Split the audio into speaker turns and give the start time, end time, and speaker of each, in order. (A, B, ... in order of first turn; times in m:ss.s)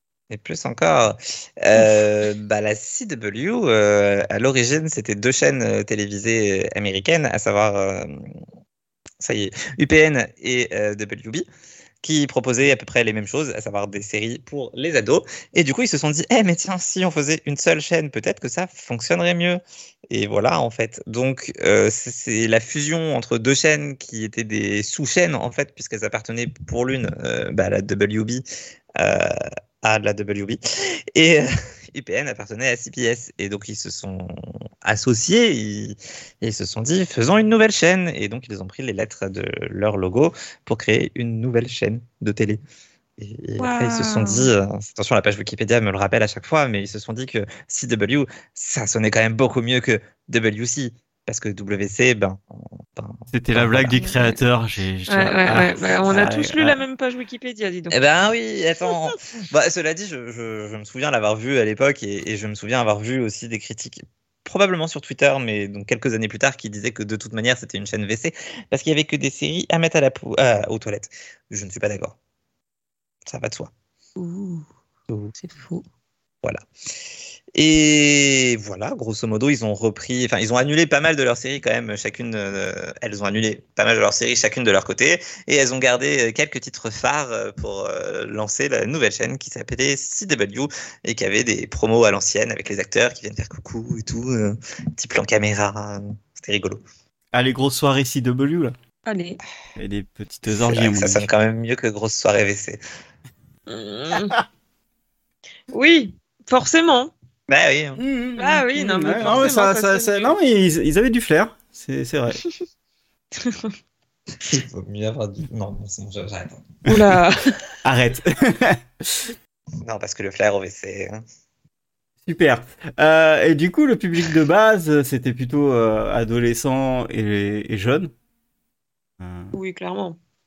0:00.3-0:08.3 A
0:09.2-0:11.5 A
0:12.0-0:28.4 A
0:29.0-0:30.6 A
0:31.1-0:42.6 A
0:43.2-0:52.4 A
0:43.6-0:44.5 B
0:52.9-0:54.0 A
0:53.3-0:56.8 C
0:54.0-0:54.3 B
0:55.1-0:58.0 B
0:57.9-1:12.2 A
0:58.8-0:59.2 B
1:13.3-1:13.7 A
1:14.2-1:14.6 B
1:15.4-1:15.8 B
1:17.6-1:36.8 A
1:37.3-1:38.7 C
1:39.1-1:39.4 B
1:39.8-1:41.3 C
1:40.5-1:42.8 A
1:43.7-1:44.4 B
1:45.7-1:47.1 B
1:47.5-1:48.0 A
1:48.0-1:52.4 C
1:48.4-1:50.4 B
1:53.4-1:53.7 B
1:54.4-1:56.7 A
1:56.9-1:57.6 B
1:57.8-1:59.3 C
1:59.8-2:01.2 A
2:02.3-2:08.1 C
2:09.2-2:09.6 C
2:09.5-2:10.2 B